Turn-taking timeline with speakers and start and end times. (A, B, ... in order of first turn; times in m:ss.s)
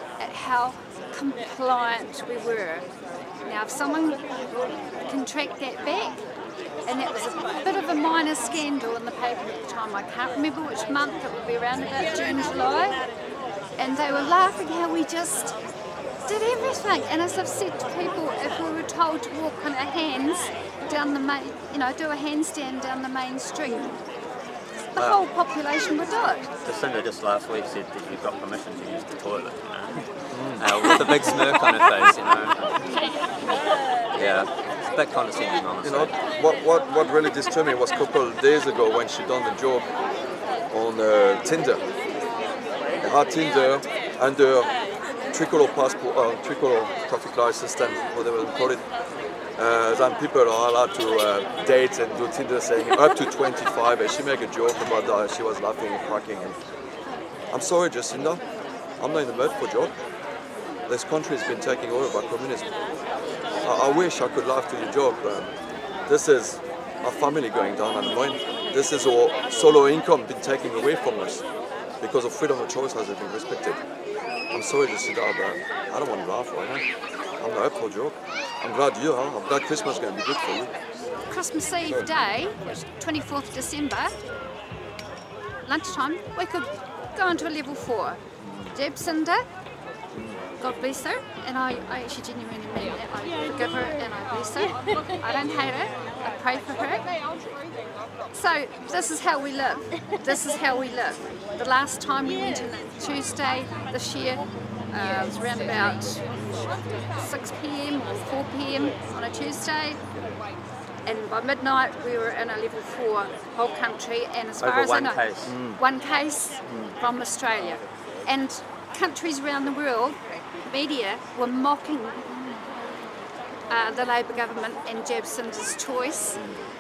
0:00.2-0:02.9 A
0:03.4-0:04.2 A
0:05.1-0:06.2 A
0:06.9-0:13.0 A
0:13.8-0:15.6 A
0:16.3-0:24.0 A
0:25.0-0:26.5 A
0:26.7-0:32.8 B
0:30.3-0:30.7 C
0:34.2-0:36.2 B
0:35.8-0:39.9 C
0:40.7-0:41.8 C
0:43.0-0:44.7 C
0:45.3-0:48.8 C
0:49.6-0:56.6 C
0:57.5-0:58.4 C
0:59.0-0:59.9 C
1:00.9-1:02.7 C
1:03.6-1:05.5 C
1:06.1-1:11.4 C
1:12.0-1:13.8 C
1:14.5-1:16.8 C
1:17.4-1:20.7 C
1:21.3-1:24.1 A
1:25.7-1:28.2 A
1:28.7-1:29.4 A
1:30.6-1:37.1 A
1:38.3-1:46.3 A
1:47.2-1:50.0 A
1:51.1-2:02.4 A
1:54.6-1:55.6 B
1:55.4-1:55.8 C
2:03.7-2:06.4 A